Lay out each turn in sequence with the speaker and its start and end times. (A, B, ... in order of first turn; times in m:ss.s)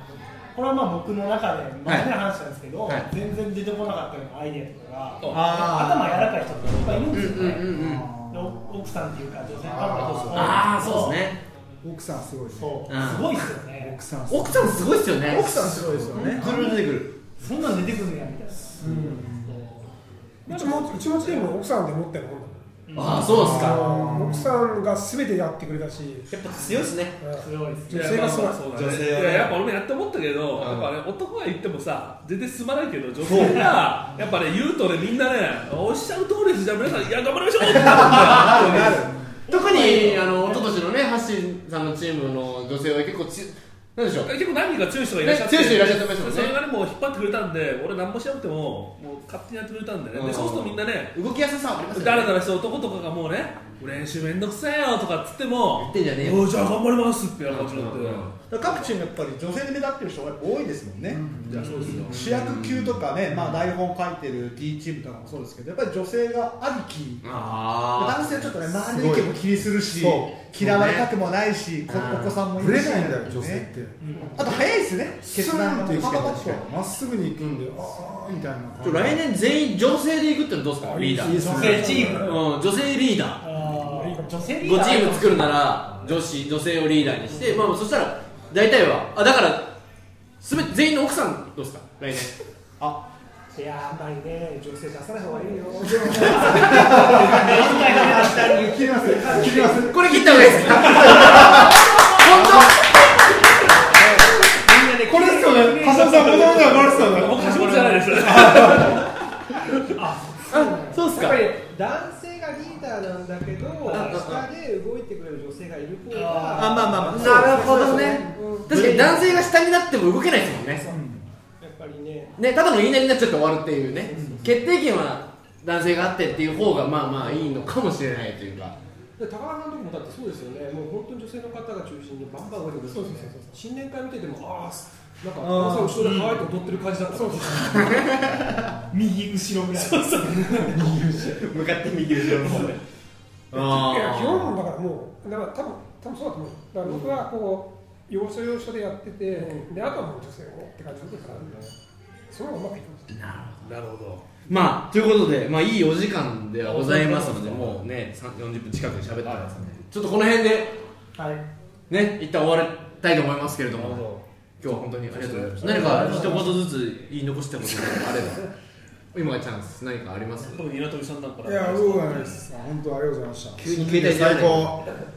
0:00.5-0:11.2 A
0:01.8-0:02.1 B
0:05.2-0:05.7 C
0:05.3-0:07.6 D
0:07.1-0:08.1 B
0:07.6-0:09.0 E
0:09.5-0:10.7 E
0:10.2-0:11.1 D
0:10.3-0:11.4 B
0:11.8-0:13.1 E
0:12.6-0:14.0 A
0:12.9-0:13.4 B
0:13.8-0:15.0 E
0:14.3-0:17.1 B
0:15.2-0:16.5 D
0:16.1-0:16.8 E
0:17.4-0:19.8 A
0:18.8-0:19.5 E
0:20.5-0:22.6 F
0:20.5-0:21.5 C
0:22.9-0:23.3 A
0:22.9-0:23.8 B
0:23.3-0:24.6 E
0:23.3-0:26.3 F
0:26.3-0:27.2 B
0:27.2-0:28.7 F
0:27.3-0:28.5 A
0:27.9-0:39.1 C
0:28.7-0:29.5 D
0:28.8-0:29.2 B
0:30.6-0:30.9 B
0:33.2-0:33.7 D
0:37.9-0:39.3 D
0:38.0-0:38.7 B
0:39.5-0:40.7 A
0:39.5-0:44.3 B
0:44.2-0:51.2 C
0:45.2-0:46.5 B
0:50.1-0:52.4 B
0:51.9-0:58.9 C
0:55.8-0:56.5 B
0:57.5-0:58.4 B
0:58.5-1:01.4 D
1:01.1-1:01.7 E
1:01.4-1:02.2 C
1:01.6-1:03.4 B
1:02.0-1:07.3 D
1:07.2-1:08.6 B
1:07.9-1:13.7 D
1:08.7-1:10.3 E
1:10.5-1:11.1 B
1:11.9-1:12.4 B
1:12.6-1:14.2 E
1:14.0-1:14.3 A
1:14.3-1:16.6 D
1:15.2-1:19.2 E
1:18.8-1:21.6 B
1:20.8-1:22.4 F
1:21.1-1:22.1 E
1:21.3-1:22.4 A
1:21.7-1:22.1 G
1:22.2-1:23.4 B
1:23.4-1:25.6 A
1:23.8-1:24.5 F
1:24.6-1:29.7 B
1:27.2-1:27.7 A
1:30.4-1:32.3 B
1:32.8-1:33.0 D
1:33.5-1:41.5 A
1:35.3-1:41.3 G
1:35.8-1:41.5 E
1:36.3-1:37.6 C
1:37.4-1:39.7 D
1:39.8-1:42.9 B
1:40.7-1:41.6 C
1:40.9-1:41.3 D
1:42.3-1:42.7 D
1:43.6-1:49.1 A
1:43.7-1:46.9 G
1:45.0-1:49.0 E
1:46.9-1:49.1 C
1:49.8-1:51.4 A
1:50.5-1:51.4 B
1:51.1-1:59.3 G
1:53.9-1:54.2 A
1:53.9-1:54.5 B
1:56.1-1:57.0 A
1:56.5-1:59.2 D
1:57.1-2:00.9 B
2:00.9-2:02.4 G
2:02.4-2:08.8 B
2:04.1-2:04.6 G
2:09.2-2:18.0 G
2:12.9-2:13.6 F
2:15.4-2:16.3 D
2:17.1-2:18.1 F
2:17.7-2:18.5 B
2:18.9-2:21.2 A
2:19.7-2:20.8 C
2:20.7-2:22.8 B
2:22.4-2:22.7 C
2:23.5-2:24.5 B
2:23.5-2:31.7 F
2:29.3-2:29.9 G
2:31.0-2:31.7 G
2:32.3-2:33.1 F
2:33.1-2:33.7 B
2:33.6-2:34.2 C
2:34.5-2:40.8 B
2:36.6-2:37.8 C
2:39.2-2:39.8 C
2:41.2-2:41.4 A
2:41.9-2:44.1 B
2:43.7-2:44.2 C
2:44.6-2:48.4 B
2:45.1-2:46.5 C
2:45.6-2:46.5 G
2:45.7-2:46.5 A
2:49.1-2:50.6 B
2:50.5-2:52.4 C
2:51.4-2:54.8 E
2:53.6-2:54.8 B